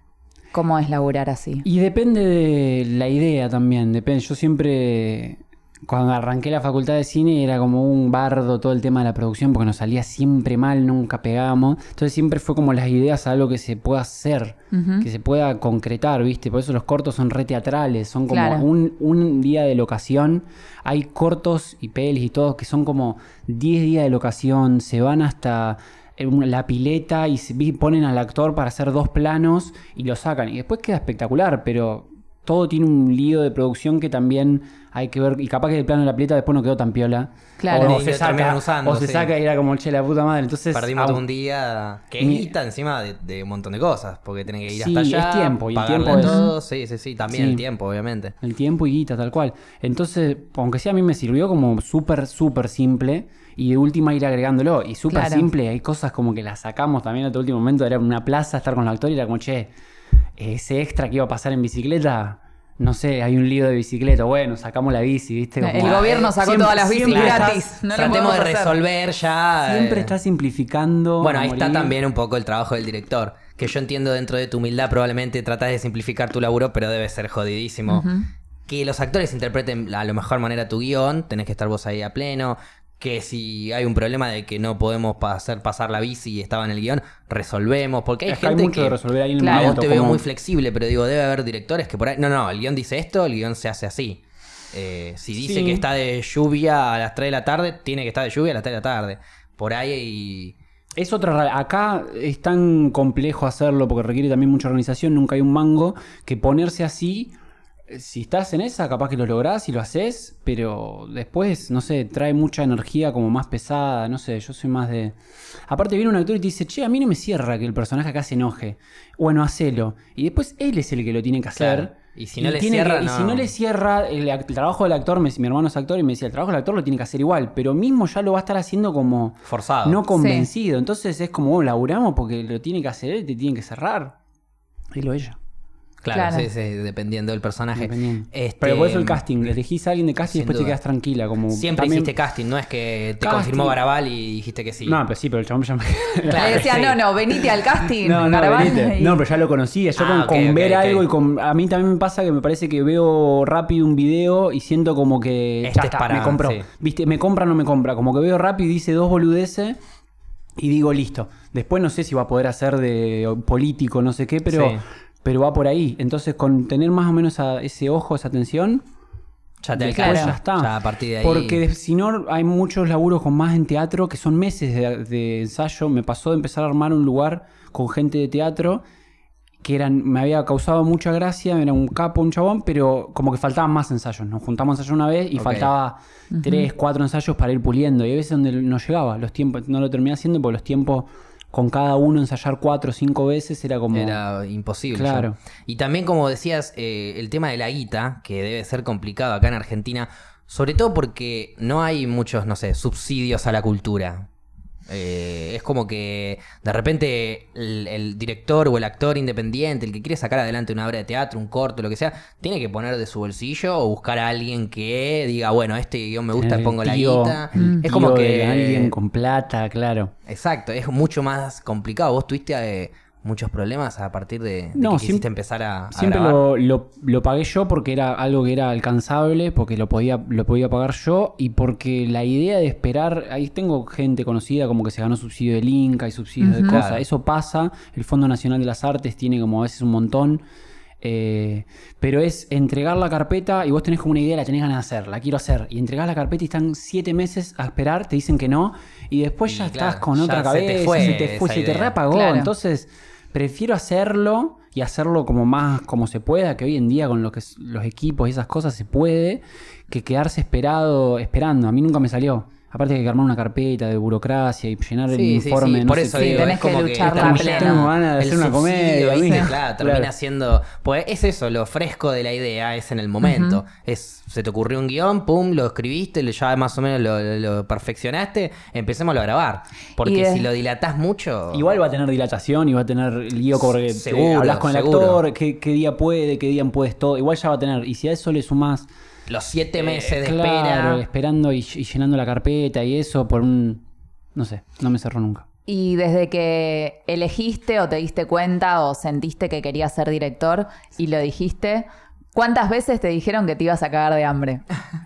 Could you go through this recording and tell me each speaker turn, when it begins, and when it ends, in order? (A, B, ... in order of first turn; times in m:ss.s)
0:00.5-0:01.6 A
0:01.6-0:41.2 B
0:14.7-0:15.1 A
0:18.3-0:18.7 A
0:37.6-0:38.0 A
0:37.7-0:39.3 C
0:40.7-0:48.4 C
0:42.2-0:42.5 B
0:44.7-0:46.4 B
0:46.1-0:46.5 A
0:47.3-0:47.6 B
0:48.4-0:59.7 B
0:55.1-0:55.5 A
1:00.4-1:07.7 B
1:05.6-1:08.8 A
1:05.8-1:06.2 C
1:07.1-1:10.1 C
1:09.6-1:12.0 B
1:11.2-1:18.0 C
1:17.9-1:18.3 A
1:18.7-1:34.2 C
1:28.3-1:30.2 B
1:29.4-1:29.8 A
1:34.7-1:40.6 C
1:35.4-1:35.9 B
1:41.0-1:47.3 B
1:47.9-1:55.2 B
1:55.7-2:14.2 B
2:01.6-2:03.5 C
2:09.5-2:10.0 C
2:10.2-2:10.5 A
2:14.9-2:15.4 B
2:16.0-2:19.2 C
2:16.1-2:16.5 A
2:17.8-2:22.1 B
2:20.3-2:20.8 C
2:21.5-2:25.0 C
2:23.2-2:23.8 B
2:24.8-2:39.8 B
2:26.3-2:27.0 C
2:26.3-2:29.2 A
2:30.0-2:31.1 C
2:35.6-2:36.6 C
2:40.6-2:48.8 B
2:44.5-2:44.8 C
2:49.6-2:51.6 C
2:49.8-2:58.8 B
2:50.0-2:50.4 A
2:59.6-3:14.2 B
3:05.4-3:05.7 C
3:06.3-3:06.7 A
3:13.9-3:24.3 C
3:14.9-3:15.4 B
3:24.9-3:38.9 C
3:36.4-3:40.1 B
3:37.6-3:37.8 A
3:40.3-3:46.4 C
3:44.8-3:45.3 B
3:45.9-4:00.4 B
3:56.4-3:56.8 A
3:56.7-3:57.0 C
4:01.0-4:30.1 B
4:09.5-4:12.0 C
4:12.1-4:12.5 A
4:25.1-4:41.7 C
4:26.1-4:27.9 A
4:33.2-4:33.6 A
4:40.0-4:40.5 A
4:41.5-4:48.9 B
4:43.7-4:45.2 C
4:49.3-4:51.0 C
4:49.8-4:53.8 B
4:54.4-4:55.4 B
4:55.7-5:04.6 A